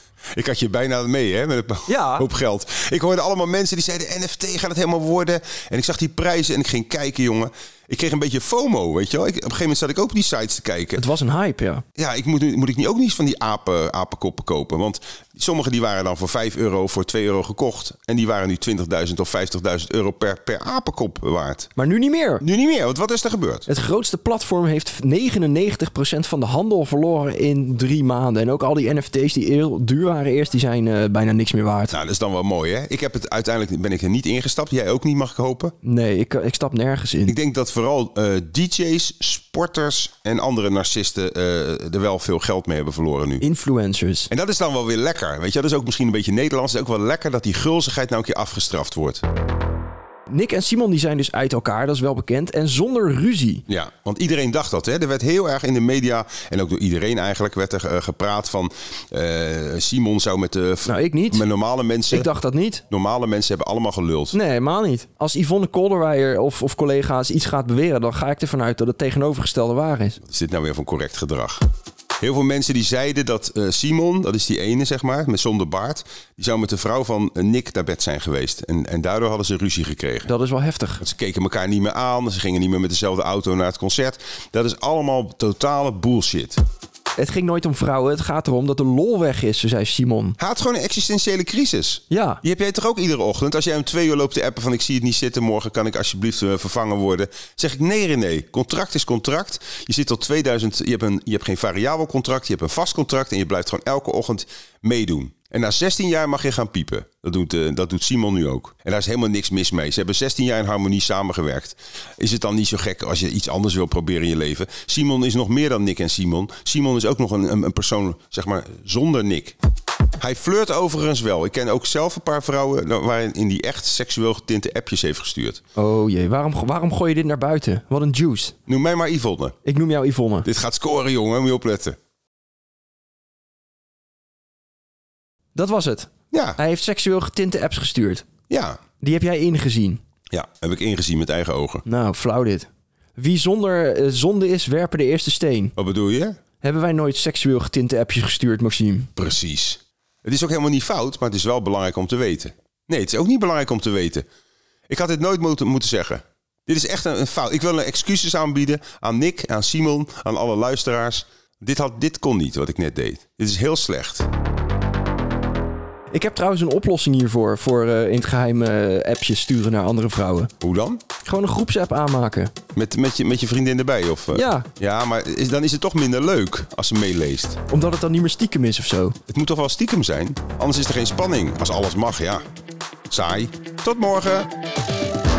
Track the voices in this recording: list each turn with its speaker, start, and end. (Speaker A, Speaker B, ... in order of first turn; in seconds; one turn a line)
Speaker A: 0.3-11.0
Speaker B: 1.9-2.3
Speaker B: 10.9-11.8
Speaker A: 11.9-21.7
Speaker B: 21.8-22.4
Speaker A: 22.4-23.7
Speaker B: 23.7-31.9
Speaker A: 31.9-35.7
Speaker B: 35.8-37.4
Speaker A: 37.3-43.4
Speaker B: 43.4-44.3
Speaker A: 44.3-49.2
Speaker B: 50.3-53.6
Speaker A: 53.7-62.3
Speaker B: 60.9-61.5
Speaker B: 62.1-62.8
Speaker A: 62.9-64.4
Speaker B: 64.3-70.2
Speaker A: 70.2-71.6
Speaker A: 72.2-80.3
Speaker B: 80.2-81.0
Speaker A: 81.0-86.6
Speaker B: 87.2-90.4
Speaker A: 90.4-119.6
Speaker B: 92.1-92.4
Speaker A: 120.2-125.6
Speaker B: 125.8-128.6
Speaker A: 128.7-129.6
Speaker B: 129.6-130.5
Speaker A: 130.4-131.9
Speaker B: 135.5-138.2
Speaker A: 136.3-136.6
Speaker A: 138.5-138.8
Speaker B: 139.0-140.0
Speaker A: 140.3-141.8
Speaker B: 141.8-145.7
Speaker A: 145.8-146.3
Speaker B: 146.6-149.1
Speaker A: 149.2-154.2
Speaker A: 154.9-164.2
Speaker B: 166.1-170.5
Speaker A: 170.6-171.0
Speaker B: 171.2-172.5
Speaker A: 172.7-177.6
Speaker B: 174.3-174.7
Speaker B: 177.7-179.2
Speaker A: 179.3-182.4
Speaker A: 183.1-184.5